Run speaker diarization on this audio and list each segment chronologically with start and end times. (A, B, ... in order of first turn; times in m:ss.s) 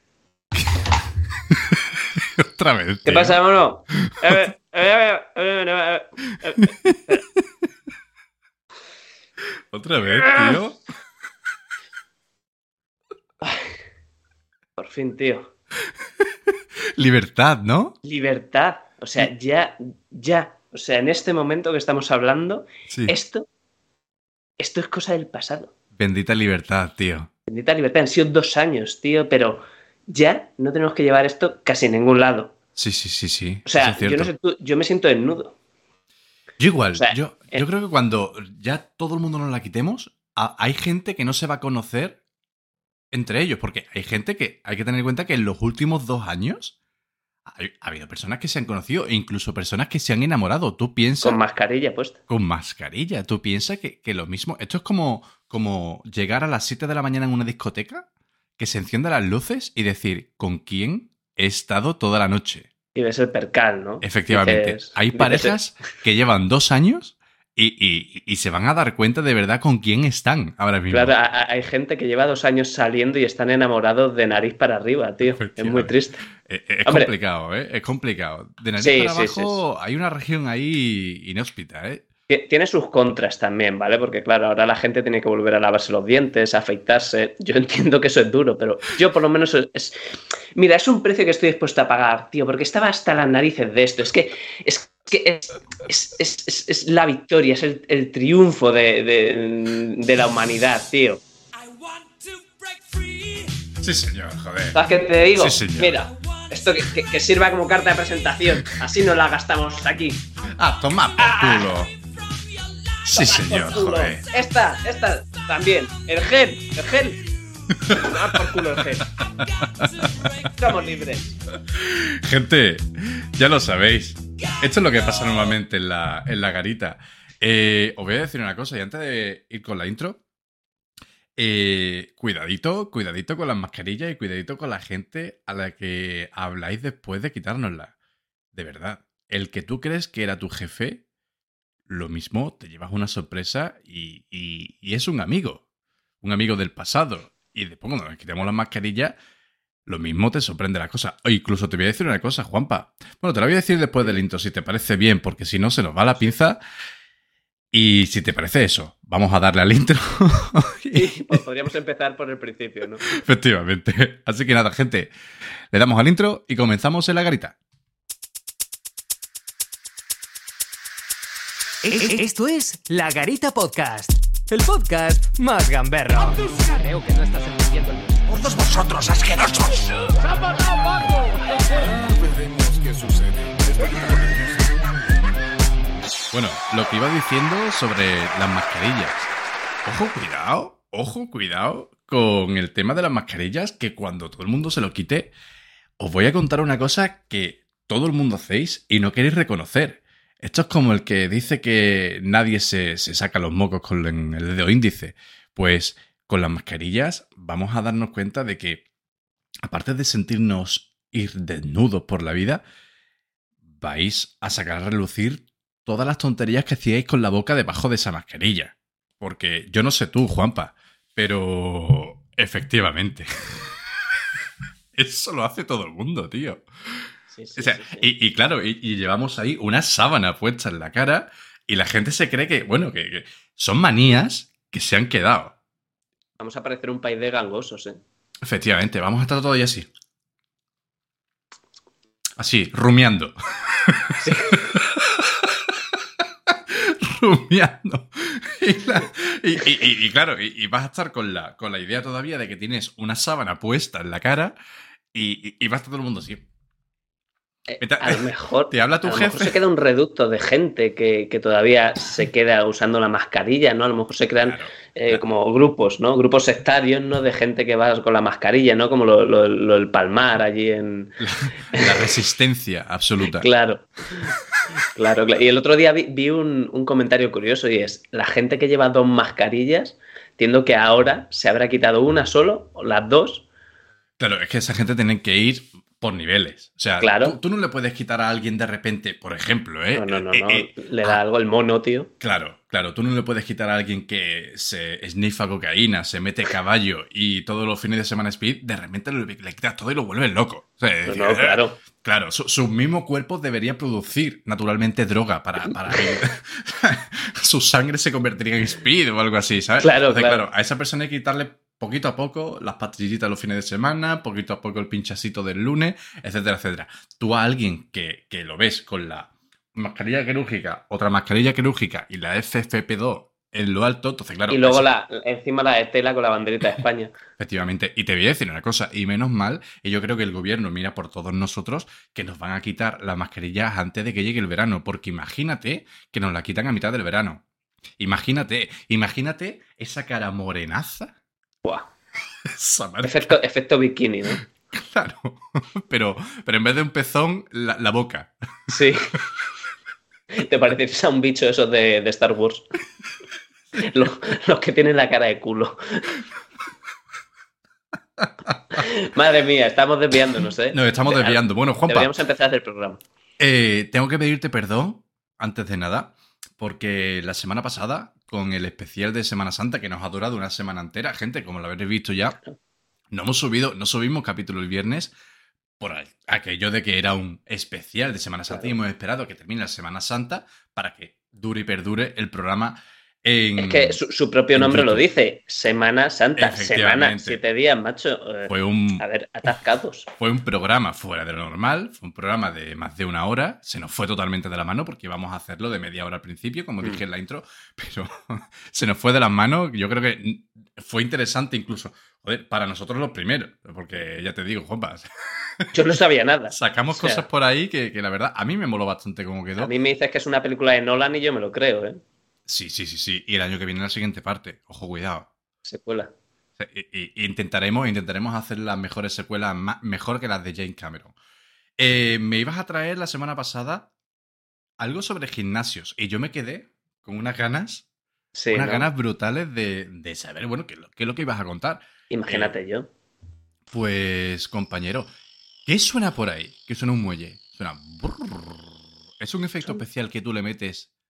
0:01.5-0:03.4 A
0:03.1-0:07.2 B
0:03.9-0:04.5 A
0:06.6-0:07.4 A
0:09.7-0:10.8 A
0:10.2-0:10.6 B
0:14.8-0:15.5 B
0:16.2-0:18.0 A
0:18.0-0:23.5 B
0:22.9-0:23.2 A
0:24.6-0:25.7 B
0:26.0-0:27.3 A
0:27.5-0:32.5 B
0:32.8-0:34.3 A
0:33.7-0:35.6 B
0:36.6-0:42.2 A
0:37.0-0:37.6 B
0:43.1-0:46.8 A
0:47.5-0:51.4 A
0:51.2-0:52.2 B
0:52.3-0:58.1 A
0:58.6-1:02.7 A
1:03.0-1:05.5 B
1:04.0-1:11.1 A
1:10.9-1:16.2 B
1:15.2-1:15.9 A
1:16.5-1:22.0 A
1:18.8-1:19.6 B
1:22.3-1:41.2 B
1:41.6-1:43.6 C
1:43.8-1:44.8 A
1:44.7-1:50.2 B
1:45.4-1:45.9 A
1:50.6-1:51.9 A
1:51.2-1:51.7 B
1:52.4-1:52.9 C
1:53.0-1:54.3 A
1:53.2-1:57.2 B
1:57.7-1:58.7 A
1:57.9-1:59.1 B
1:59.2-2:00.5 A
1:59.6-2:00.0 C
2:00.5-2:01.3 B
2:01.6-2:10.2 A
2:11.4-2:17.9 A
2:18.5-2:21.0 A
2:21.9-2:25.6 A
2:26.2-2:29.2 A
2:29.9-2:36.6 A
2:37.7-2:41.4 A
2:40.9-2:43.0 B
2:43.1-2:45.1 A
2:45.7-2:47.6 A
2:51.8-3:04.9 C
3:06.3-3:09.3 A
3:09.8-3:15.3 A
3:16.0-3:28.8 A
3:29.7-3:32.6 A
3:33.8-3:43.7 A
3:45.0-3:46.6 A
3:47.3-3:48.1 B
3:47.6-3:55.5 A
3:56.4-3:58.0 B
3:58.4-3:59.9 A
4:02.4-4:06.0 A
4:04.2-4:04.6 B
4:06.5-4:14.6 A
4:15.1-4:16.4 A
4:17.7-4:31.2 B
4:17.8-4:19.6 A
4:24.4-4:25.2 A
4:31.2-4:33.5 A
4:31.7-4:32.1 B
4:33.3-4:34.3 B
4:34.8-4:43.5 B
4:44.2-4:51.2 A
4:47.0-4:47.4 B
4:50.0-4:52.1 B
4:52.2-5:24.9 A
5:01.1-5:01.8 B
5:05.7-5:06.2 B
5:09.8-5:10.5 B
5:24.5-5:27.2 B
5:27.4-5:37.4 A
5:38.0-5:41.1 A
5:42.5-5:43.4 A
5:43.0-5:44.4 B
5:44.7-5:48.3 A
5:48.7-5:49.0 B
5:50.3-5:52.7 B
5:53.8-5:56.2 B
5:58.2-5:58.8 A
5:58.8-6:03.0 B
6:00.7-6:02.1 A
6:03.4-6:12.4 A
6:13.1-6:15.1 A
6:15.8-6:24.0 A
6:23.6-6:30.1 B
6:24.5-6:25.1 A
6:26.4-6:27.4 A
6:28.5-6:29.5 A
6:30.2-6:45.1 A
6:45.6-6:45.8 A
6:45.7-6:47.2 B
6:46.5-6:49.7 A
6:49.6-6:52.0 B
6:52.5-6:55.3 A
6:55.6-6:56.1 B
6:56.6-7:01.1 A
7:01.8-7:03.9 A
7:04.8-7:07.9 A
7:08.3-7:08.9 B
7:08.5-7:12.5 A
7:12.1-7:12.9 B
7:13.7-7:15.1 A
7:15.7-7:20.9 A